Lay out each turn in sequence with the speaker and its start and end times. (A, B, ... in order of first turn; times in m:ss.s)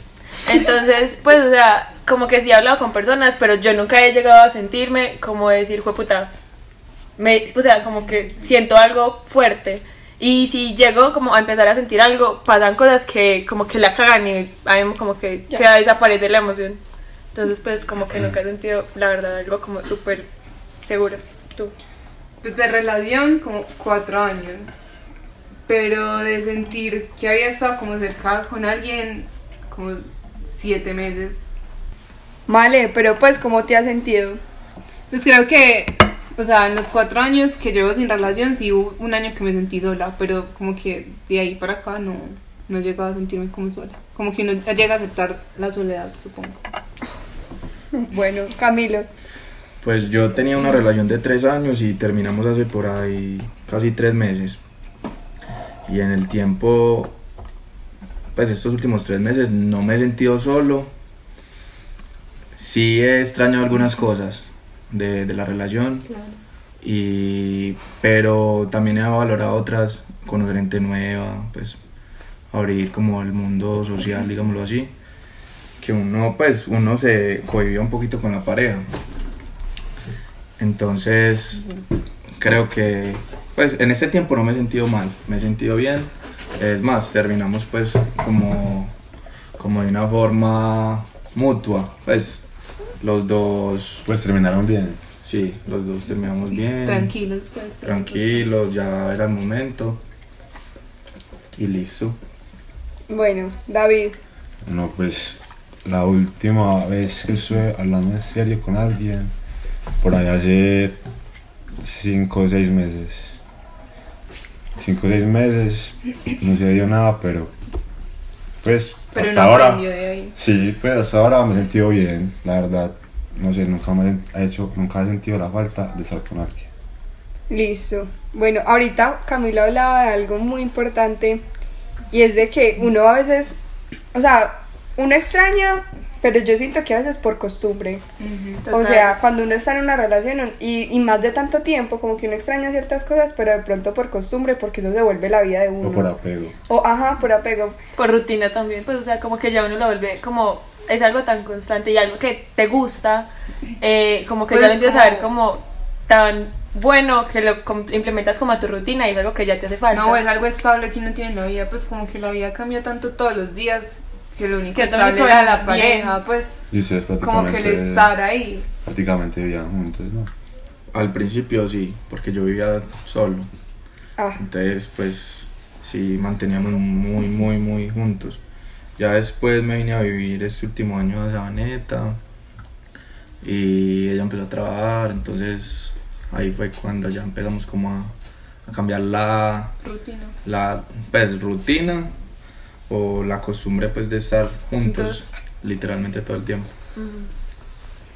0:00.4-0:06.3 A
0:07.2-0:16.8 A
0:17.3-0:20.3 A
0:20.8-0:21.7 A
0:22.4-0:24.8 B
0:25.7-0:31.5 B
0:32.5-0:34.4 C
0:35.1-0:46.6 B
0:47.9-0:49.1 C
0:49.8-0:54.6 D
0:55.9-0:57.1 D
0:58.3-1:00.9 D
1:02.6-1:06.1 D
1:06.1-1:06.4 B
1:06.8-1:11.8 D
1:12.5-1:14.9 D
1:15.8-1:18.9 D
1:20.6-1:21.7 D
1:22.4-1:28.9 D
1:29.6-1:32.4 D
1:33.0-1:34.0 D
1:34.0-1:35.0 E
1:35.2-1:37.1 D
1:36.8-1:38.4 B
1:37.8-1:40.0 D
1:41.6-1:42.2 D
1:43.1-1:44.2 C
1:44.6-1:49.3 E
1:50.0-1:51.0 E
1:51.8-1:53.3 E
1:54.8-1:57.5 E
1:58.6-1:59.8 E
1:59.1-2:00.3 B
2:00.4-2:06.7 E
2:07.5-2:11.4 C
2:12.1-2:13.6 C
2:14.1-2:18.0 C
2:18.2-2:18.6 B
2:18.6-2:19.1 A
2:18.7-2:26.1 C
2:25.8-2:26.5 E
2:26.7-2:27.8 C
2:28.0-2:33.3 A
2:33.8-2:40.2 A
2:34.5-2:35.3 B
2:39.9-2:46.7 B
2:44.7-2:46.1 A
2:46.7-2:48.1 E
2:47.2-2:48.7 B
2:48.8-2:50.3 E
2:50.9-2:53.5 D
2:54.4-2:58.4 D
2:59.0-3:02.2 D
3:03.4-3:08.1 D
3:08.6-3:09.8 D
3:09.8-3:10.3 B
3:10.4-3:12.1 D
3:12.9-3:16.7 D
3:14.8-3:15.3 A
3:17.0-3:17.3 A